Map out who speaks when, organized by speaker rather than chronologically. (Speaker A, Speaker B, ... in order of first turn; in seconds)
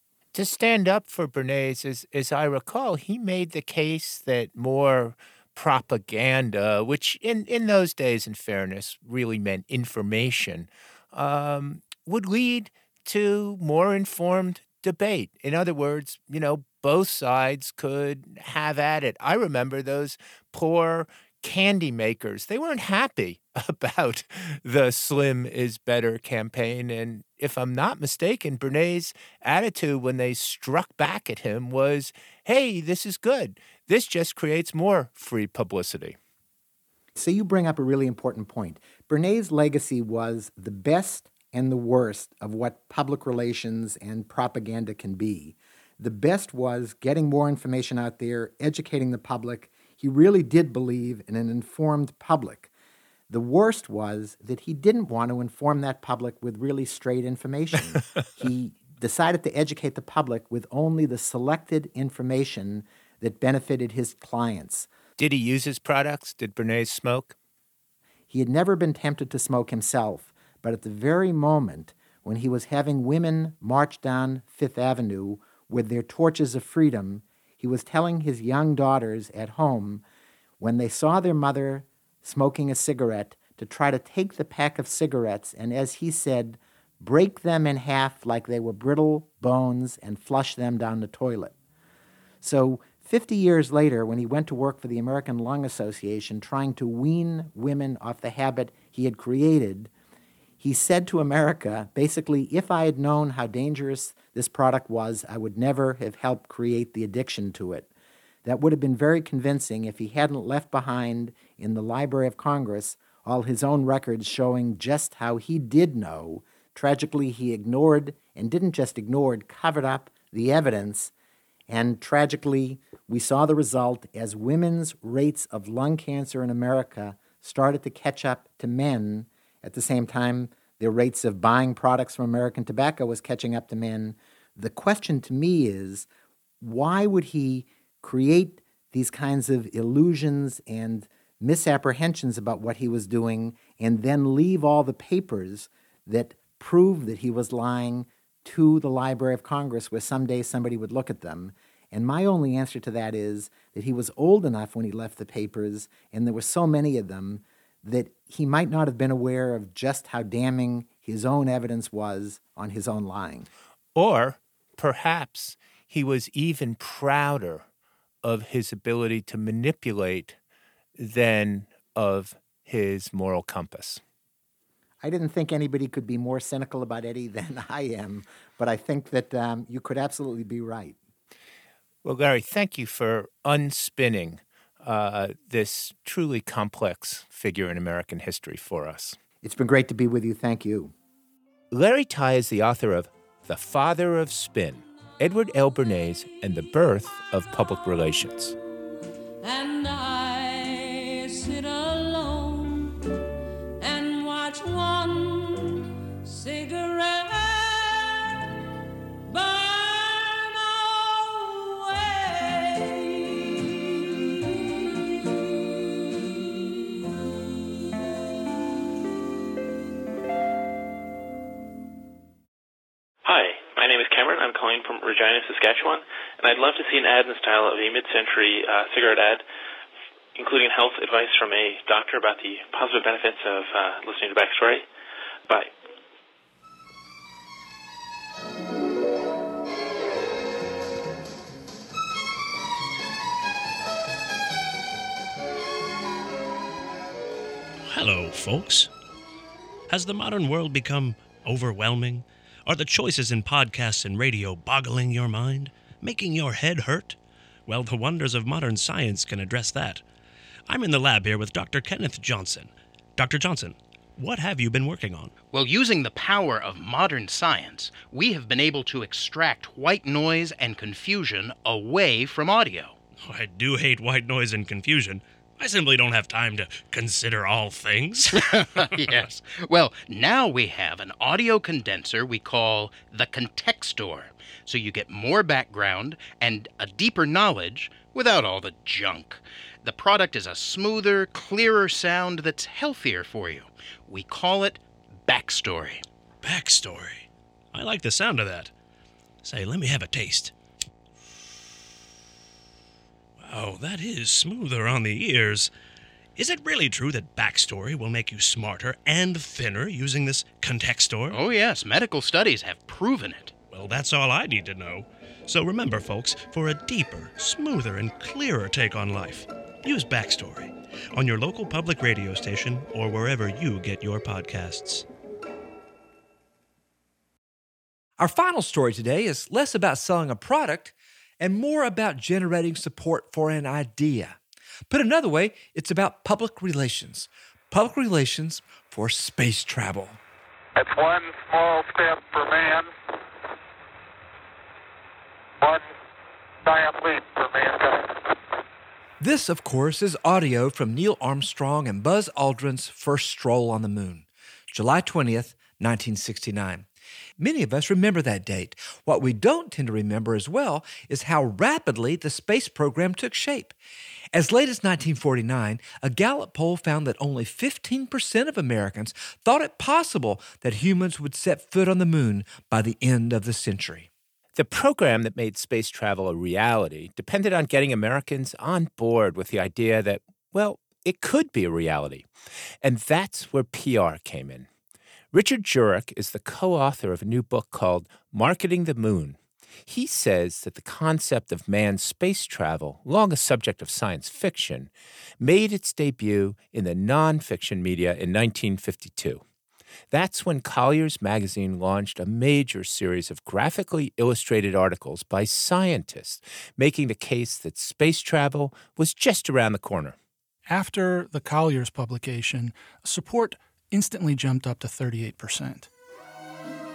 Speaker A: 0.3-36.2, 65.2-67.3, 163.9-167.7, 168.2-170.4, 171.0-174.0, 182.0-189.2, 191.7-198.5, 374.5-382.3, 382.8-384.7, 385.3-399.4, 400.1-410.1
Speaker B: 37.1-52.7, 53.3-64.9, 68.3-80.0, 80.6-91.5, 92.4-99.9, 100.6-107.9, 108.4-121.1, 121.7-136.1, 136.6-163.5, 175.0-181.0, 189.4-190.9
Speaker C: 223.2-229.4, 230.3-234.8
Speaker D: 247.8-248.9, 249.9-260.0, 260.7-265.3, 273.2-279.2, 296.4-298.7, 299.4-300.5, 303.4-305.7, 306.4-311.4, 313.7-325.0
Speaker E: 265.5-273.0, 278.3-296.0, 311.3-313.6
Speaker F: 328.2-334.4, 334.9-340.2, 349.2-356.8, 357.4-363.7, 364.3-374.1
Speaker G: 340.8-342.9, 345.6-345.9, 346.6-348.2
Speaker H: 410.7-415.9